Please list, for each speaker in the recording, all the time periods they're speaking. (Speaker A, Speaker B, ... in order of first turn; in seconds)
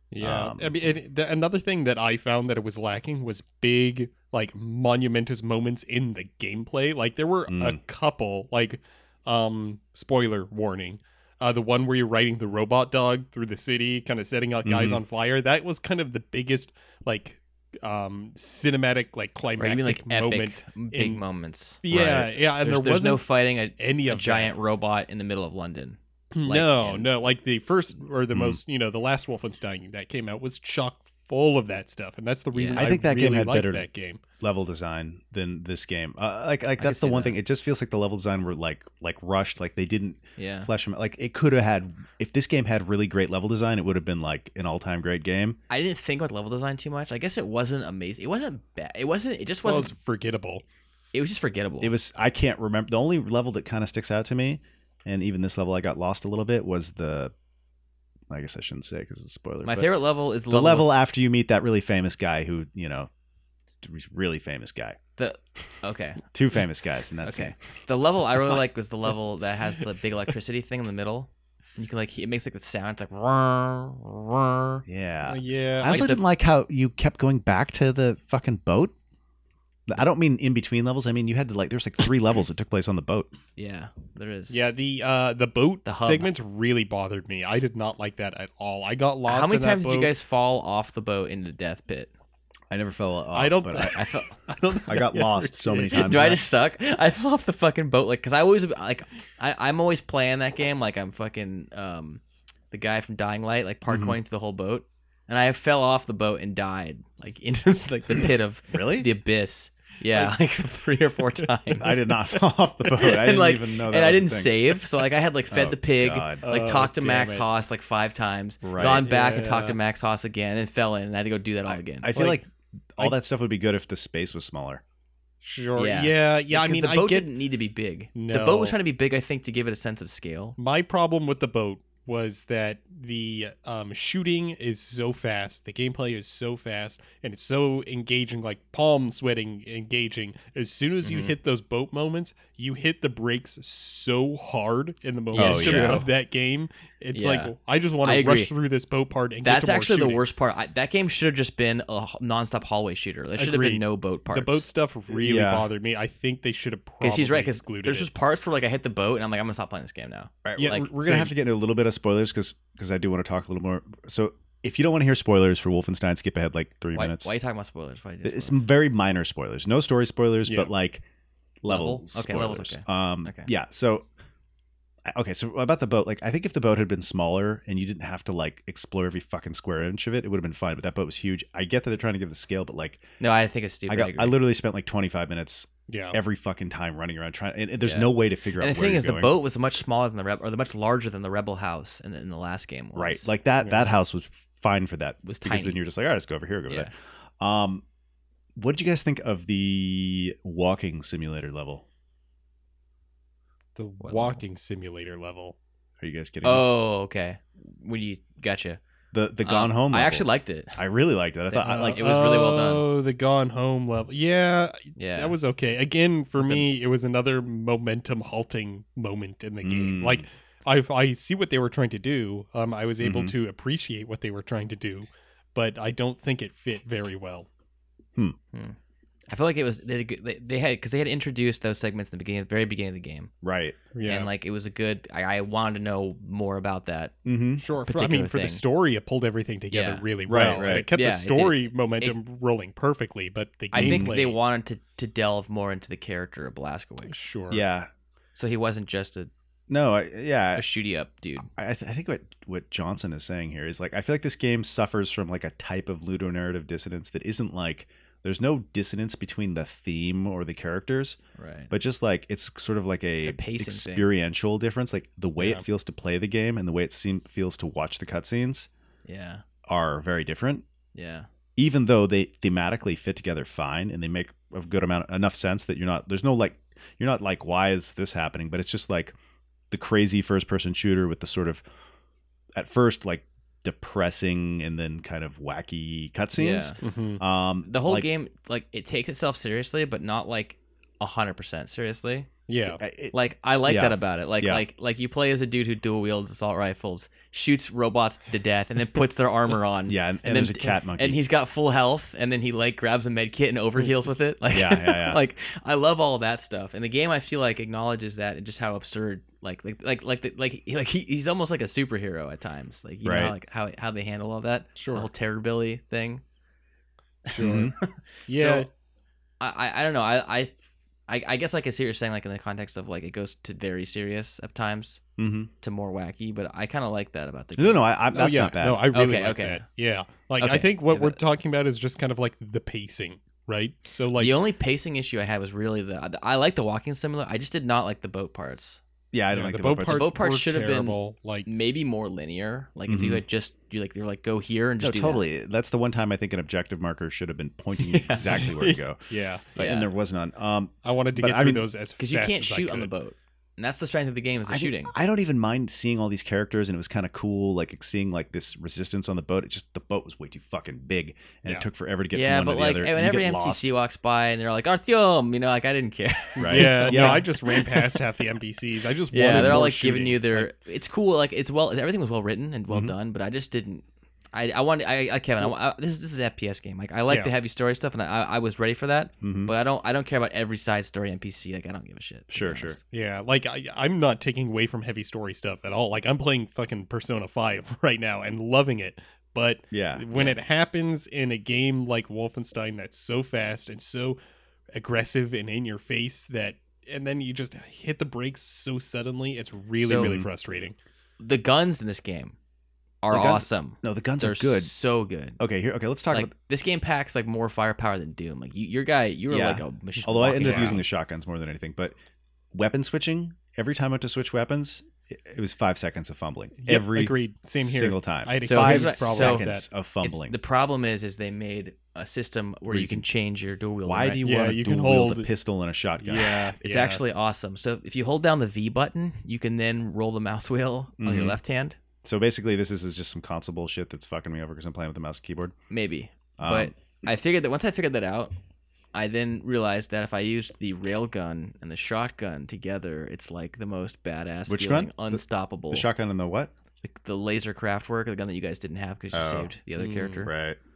Speaker A: 0.1-21.2, 21.8-23.2, 23.8-24.5, 26.3-34.2, 49.6-50.6, 75.2-76.1, 84.5-90.1, 93.3-96.3, 116.4-117.5, 118.8-119.8, 125.4-127.3, 128.1-128.8, 130.6-150.2, 153.4-158.1, 160.6-161.3, 170.4-170.7, 185.9-186.2, 193.6-193.9, 203.8-205.6, 211.6-227.5, 233.9-234.3, 237.6-244.4, 247.1-247.6, 286.8-287.2, 292.5-292.8, 314.8-315.1, 317.3-317.7, 318.2-318.7, 328.1-334.4, 339.3-341.5, 349.1-349.5, 350.8-352.9, 366.4-370.5, 382.9-394.2, 394.7-400.7, 410.4-410.8, 416.6-419.6, 424.2-425.3, 426.0-427.0, 449.8-450.3
Speaker B: 0.2-0.9, 7.5-7.8, 14.6-15.0, 21.9-22.3, 28.3-28.6, 32.8-33.9, 34.4-45.6, 51.8-57.3, 58.3-59.9, 60.5-63.1, 63.8-65.0, 66.3-67.5, 74.9-78.9, 79.9-83.3, 92.7-94.0, 94.9-96.4, 103.9-104.2, 108.7-109.1, 111.8-114.8, 115.5-116.4, 118.6-119.1, 121.7-124.8, 145.3-146.0, 155.1-155.7, 160.4-167.3, 168.2-171.0, 171.6-174.1, 175.1-183.0, 183.9-189.3, 192.9-197.8, 198.6-201.8, 206.0-206.7, 209.1-212.0, 219.6-220.2, 223.0-223.3, 233.4-233.8, 237.2-237.6, 240.3-240.9, 243.7-244.2, 247.5-247.9, 249.7-250.7, 251.4-261.2, 261.7-268.7, 269.7-270.6, 271.6-279.1, 279.7-281.6, 282.6-288.1, 292.8-293.1, 293.6-294.6, 299.9-301.2, 304.5-305.2, 313.0-313.3, 317.4-317.7, 325.2-325.5, 327.6-328.9, 339.1-340.1, 342.9-343.2, 344.8-349.0, 349.5-351.6, 354.5-363.7, 366.4-367.2, 369.3-369.6, 372.7-372.9, 379.2-379.5, 382.3-382.8, 389.7-390.0, 400.0-400.3, 403.1-404.7, 405.4-406.3, 409.3-411.9, 412.5-420.4, 422.7-423.0, 423.8-426.5, 431.0-431.4, 432.0-435.5, 436.4-436.7, 444.5-446.5, 449.1-449.5, 450.2-450.6
Speaker C: 19.6-21.8, 22.6-27.1, 32.5-32.9, 36.8-37.4, 40.4-40.7, 45.7-49.9, 51.1-51.9, 59.6-60.9, 65.2-66.2, 67.2-74.8, 75.8-76.2, 83.5-84.7, 85.8-86.3, 89.3-92.1, 93.8-94.3, 95.9-112.3, 112.9-122.3, 125.8-130.6, 141.0-141.3, 145.3-146.1, 147.1-148.5, 149.4-154.7, 157.0-160.3, 166.9-168.6, 171.7-173.5, 183.2-184.4, 187.8-193.3, 195.2-195.8, 204.0-204.4, 206.4-208.8, 209.4-210.8, 211.5-212.8, 214.9-215.3, 229.3-233.3, 234.0-237.1, 237.8-238.6, 239.7-242.2, 243.7-247.2, 248.3-249.3, 250.5-251.5, 261.4-261.7, 263.2-264.1, 269.1-269.4, 270.9-271.3, 286.3-286.8, 287.6-292.3, 293.1-316.2, 317.3-318.7, 319.4-320.6, 321.1-325.0, 325.6-327.8, 328.9-329.6, 330.4-331.2, 334.2-338.8, 339.8-345.2, 347.8-348.8, 349.6-349.9, 352.0-354.9, 362.1-368.0, 369.1-382.8, 399.8-400.2, 401.2-402.3, 403.0-405.4, 406.1-410.8, 418.4-419.5, 420.0-424.2, 426.6-431.8, 435.7-438.3, 438.9-445.9, 446.8-450.3